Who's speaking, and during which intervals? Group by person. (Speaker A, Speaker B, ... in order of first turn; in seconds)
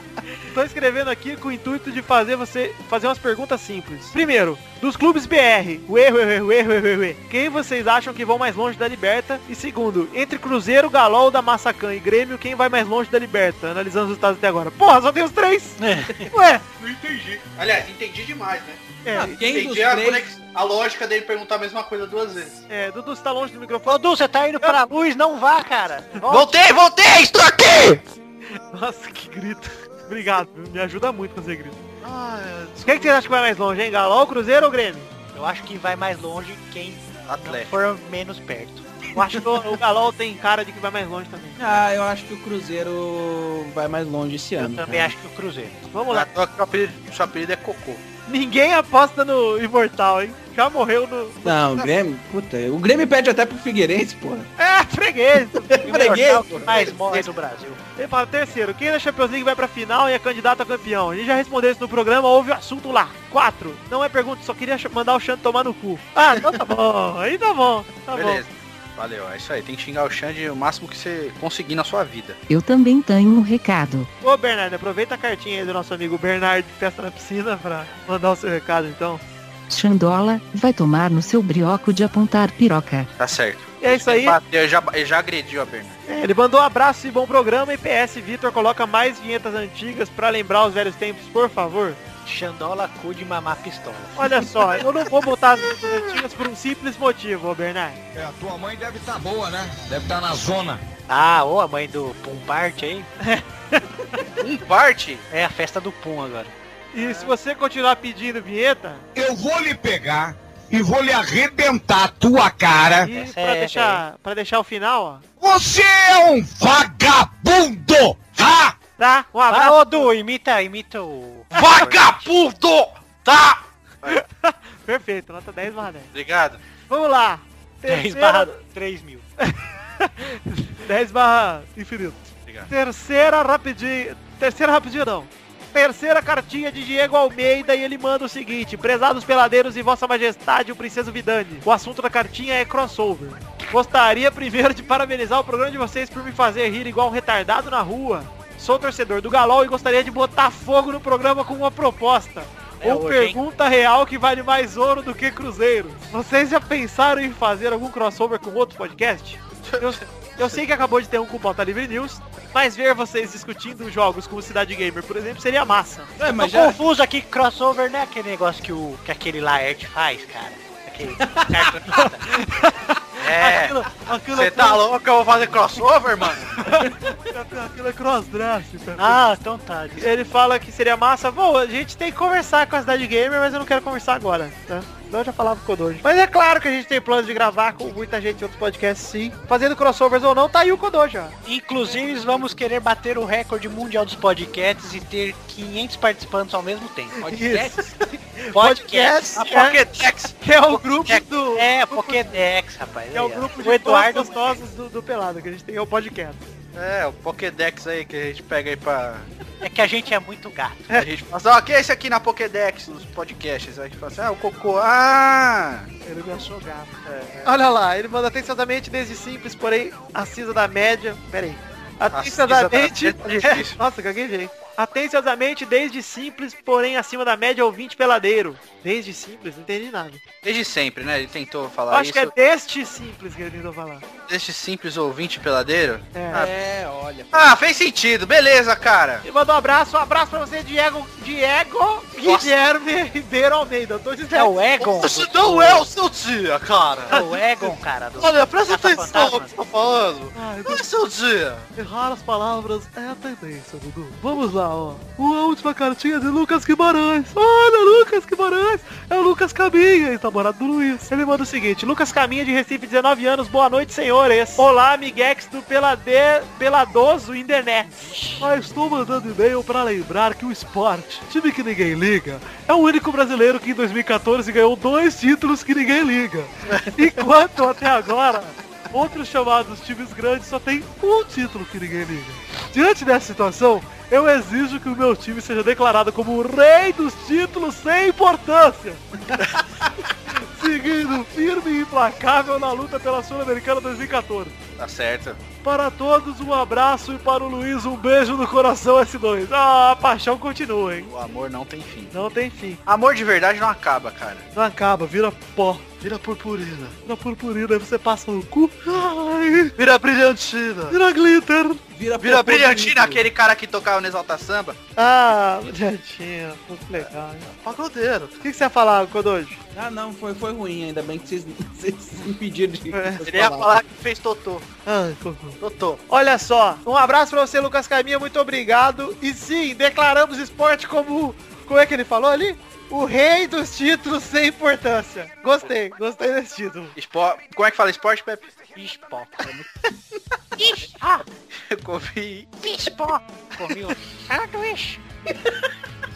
Speaker A: 0.5-15.8, 16.3-16.6, 19.1-19.4, 22.7-24.0, 26.2-26.5, 28.7-31.8, 32.8-35.1, 39.1-41.6, 45.9-46.3, 48.3-51.5, 54.6-56.2, 56.8-57.3, 58.0-68.4, 74.2-79.2, 83.8-84.4, 86.1-92.0, 94.2-98.0, 103.2-103.8, 106.9-109.0, 113.0-115.2, 119.0-120.1, 124.1-126.1, 126.9-128.6, 129.4-166.1, 172.3-174.8, 176.6-179.2, 180.0-191.4, 197.3-197.8, 198.4-199.8, 200.4-202.4, 203.1-206.4, 216.1-216.9, 217.4-230.2, 231.9-234.1, 236.1-236.5, 239.2-244.6, 247.1-247.3, 250.3-250.8, 251.8-289.0, 290.3-294.6, 295.6-301.1, 302.1-302.8, 304.6-306.0, 307.1-309.7, 310.9-311.8, 315.0-317.5, 318.4-319.6, 322.9-323.2, 324.9-325.6, 326.1-336.9
Speaker B: 15.8-16.3, 23.9-26.4, 35.3-38.9, 44.6-45.8, 55.8-57.8, 92.2-94.5, 101.1-103.1, 105.3-107.3, 113.1-114.0, 119.5-122.3, 127.9-129.2, 152.8-153.4, 166.3-172.3, 179.0-180.1, 191.5-197.2, 198.5-199.6, 201.1-204.6, 209.6-210.9, 244.3-245.9, 247.1-249.5, 268.0-268.5, 338.8-339.5, 343.5-344.2
Speaker C: 16.8-18.8, 19.4-22.6, 26.3-28.0, 32.0-33.2, 37.3-37.8, 46.1-48.0, 68.1-72.4, 83.2-86.0, 104.4-105.2, 121.5-124.2, 126.1-126.6, 159.6-160.6, 173.2-173.8, 174.3-176.6, 199.4-200.3, 206.8-209.3, 211.0-215.9, 217.0-217.6, 222.1-223.8, 230.4-232.3, 234.3-239.2, 242.2-242.5, 244.8-247.2, 248.2-251.7, 294.8-295.4, 301.1-302.1, 302.9-304.5, 306.0-307.0, 309.8-311.0, 312.2-314.8, 317.5-318.4, 323.3-324.7, 325.6-326.0, 336.9-338.5, 341.7-342.8
Speaker D: 19.1-20.3, 41.6-45.1, 51.4-54.5, 55.7-56.9, 166.2-166.8, 197.2-197.9, 237.1-237.5, 311.9-313.2, 319.8-323.8
Speaker E: 72.5-74.1, 79.7-83.1
Speaker F: 109.1-113.1, 115.4-118.8
Speaker G: 340.6-341.2, 342.6-343.2, 344.3-345.0